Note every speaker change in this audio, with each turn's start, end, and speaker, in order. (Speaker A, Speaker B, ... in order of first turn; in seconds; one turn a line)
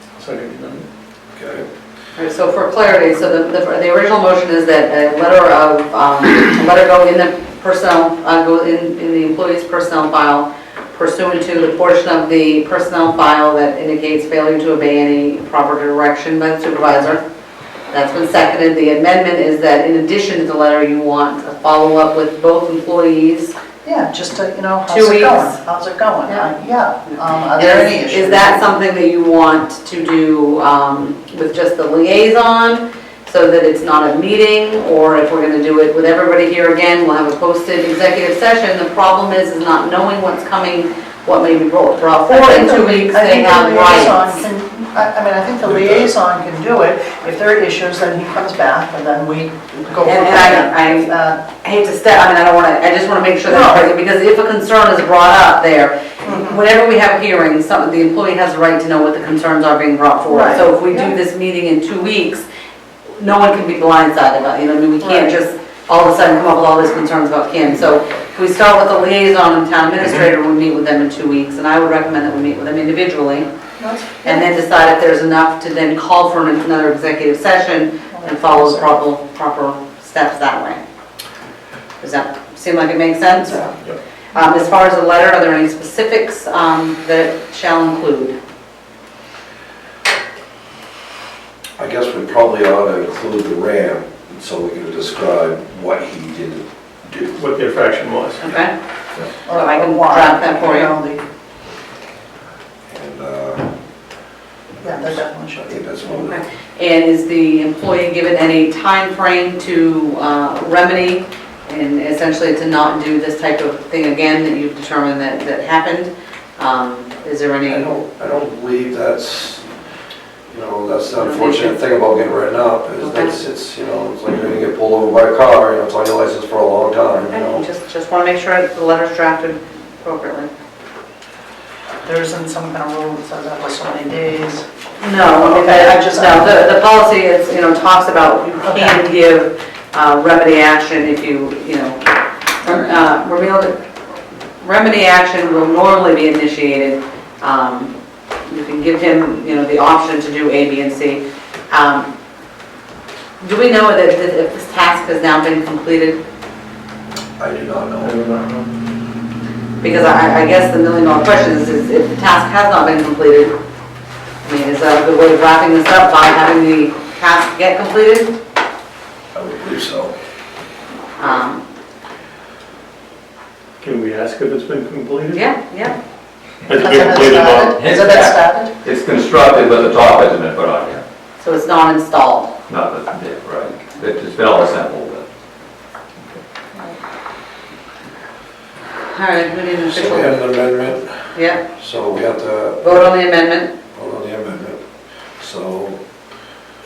Speaker A: 0.1-0.8
Speaker B: 1.3-1.6
Speaker C: 2.1-17.2
Speaker C: 17.9-23.5
Speaker D: 23.8-28.7
Speaker C: 24.9-25.6
Speaker C: 27.1-44.4
Speaker D: 42.2-51.4
Speaker C: 50.0-62.4
Speaker D: 53.5-53.9
Speaker D: 56.2-56.6
Speaker D: 60.3-61.1
Speaker C: 63.1-73.5
Speaker D: 65.0-65.3
Speaker D: 73.8-74.5
Speaker C: 74.2-80.8
Speaker D: 78.1-78.9
Speaker C: 82.0-83.7
Speaker D: 83.5-83.8
Speaker C: 84.3-88.3
Speaker B: 91.8-97.4
Speaker A: 97.3-98.4
Speaker C: 98.4-98.7
Speaker D: 99.5-101.2
Speaker C: 99.5-100.9
Speaker B: 102.9-103.7
Speaker D: 104.8-105.8
Speaker B: 104.8-106.4
Speaker C: 106.2-117.9
Speaker B: 117.7-119.6
Speaker B: 120.5-127.6
Speaker C: 121.2-121.7
Speaker C: 123.0-123.3
Speaker C: 127.3-130.5
Speaker D: 132.0-134.6
Speaker C: 135.0-142.0
Speaker D: 135.3-136.7
Speaker D: 138.6-139.1
Speaker C: 142.6-143.7
Speaker C: 144.6-147.9
Speaker C: 148.4-152.1
Speaker C: 153.4-156.2
Speaker B: 157.4-158.2
Speaker A: 158.0-158.6
Speaker C: 159.8-163.6
Speaker C: 164.4-168.3
Speaker B: 169.3-170.1
Speaker C: 171.2-171.6
Speaker A: 173.8-175.4
Speaker C: 175.3-175.9
Speaker A: 176.7-177.7
Speaker D: 176.8-178.7
Speaker E: 177.4-181.0
Speaker C: 181.4-182.5
Speaker E: 182.7-185.2
Speaker C: 189.1-190.4
Speaker B: 189.9-191.2
Speaker C: 191.3-191.6
Speaker B: 191.7-193.1
Speaker C: 192.8-193.7
Speaker B: 193.9-194.8
Speaker B: 195.4-196.0